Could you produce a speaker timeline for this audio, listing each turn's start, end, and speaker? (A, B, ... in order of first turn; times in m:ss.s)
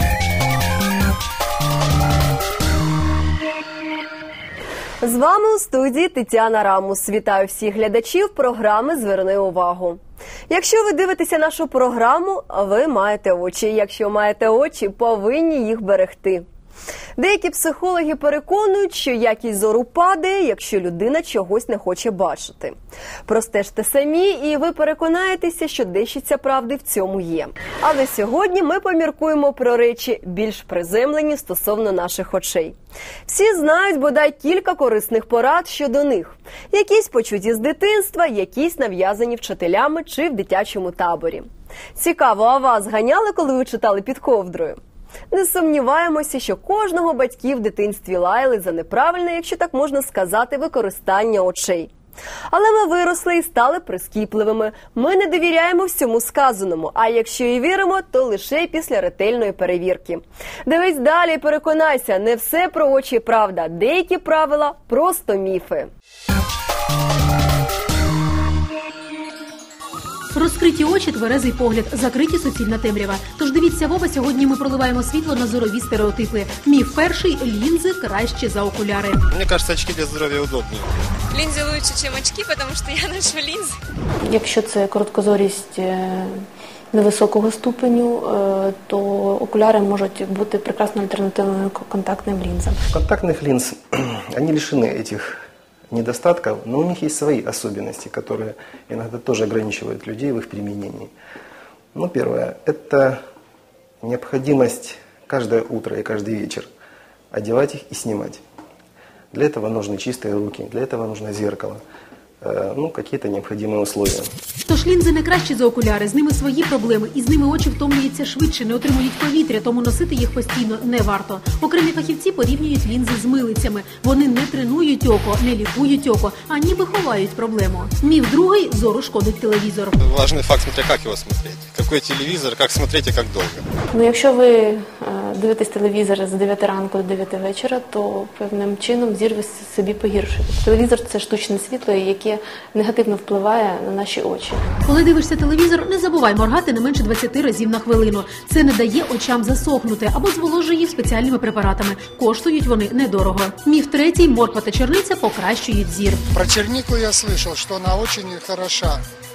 0:05.0-0:16.4 A
0:17.2-0:44.8 A
0:45.3-0:51.9 A
0:52.5-1:05.9 A
1:10.3-1:19.2 B
1:19.3-1:20.9 C
1:21.3-1:23.8 D
1:24.2-1:26.3 E
1:26.9-1:32.8 E
1:32.9-1:41.1 F
1:41.9-1:43.2 F
1:44.0-1:46.7 F
1:47.3-1:48.4 F
1:49.3-1:51.8 F
1:52.4-1:54.3 F
1:54.6-2:10.0 B
2:10.0-2:13.6 C
2:13.9-2:24.7 E
2:24.8-2:36.2 B
2:36.3-2:39.0 G